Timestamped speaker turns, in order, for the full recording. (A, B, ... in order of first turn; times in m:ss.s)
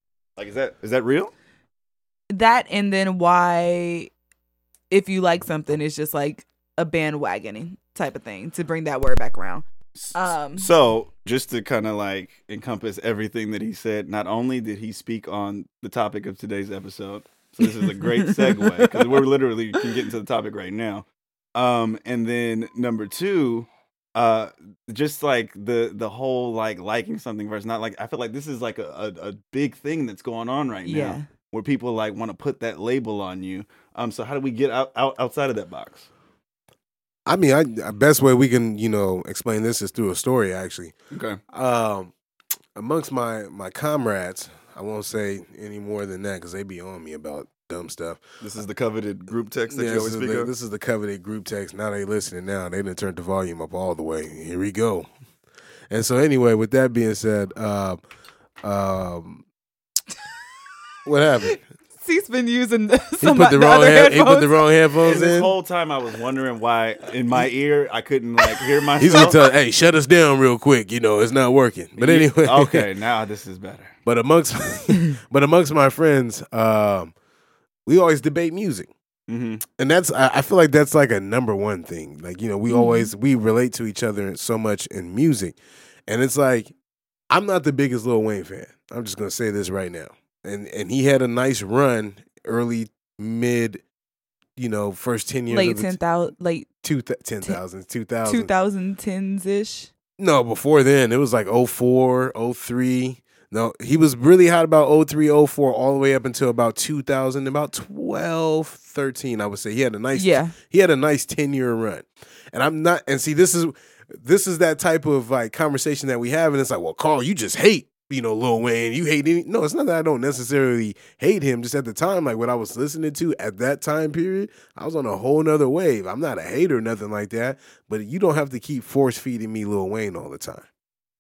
0:00.4-0:01.3 A
0:02.3-0:04.1 B
0:04.9-0:10.7 B
0:10.0-0:36.1 A
0:17.6-0:18.9 B
0:30.9-0:31.3 B
0:37.3-0:40.9 C
0:41.1-0:41.4 A
0:41.5-0:42.1 C
0:42.7-0:48.2 C
0:48.4-0:50.5 A
0:49.7-0:55.1 C
0:55.9-0:58.0 C
0:58.6-0:59.4 C
1:01.0-1:01.6 C
1:02.0-1:04.6 B
1:03.2-1:05.5 C
1:05.0-1:09.4 A
1:09.0-1:12.9 C
1:12.0-1:13.9 A
1:14.0-1:17.1 C
1:17.9-1:18.9 C
1:19.3-1:19.6 A
1:19.8-1:26.7 C
1:22.7-1:23.1 B
1:27.3-1:33.8 C
1:34.6-1:36.0 C
1:35.5-1:36.6 B
1:36.8-1:38.5 C
1:38.2-1:39.9 B
1:40.2-2:10.6 C
1:50.1-1:50.6 B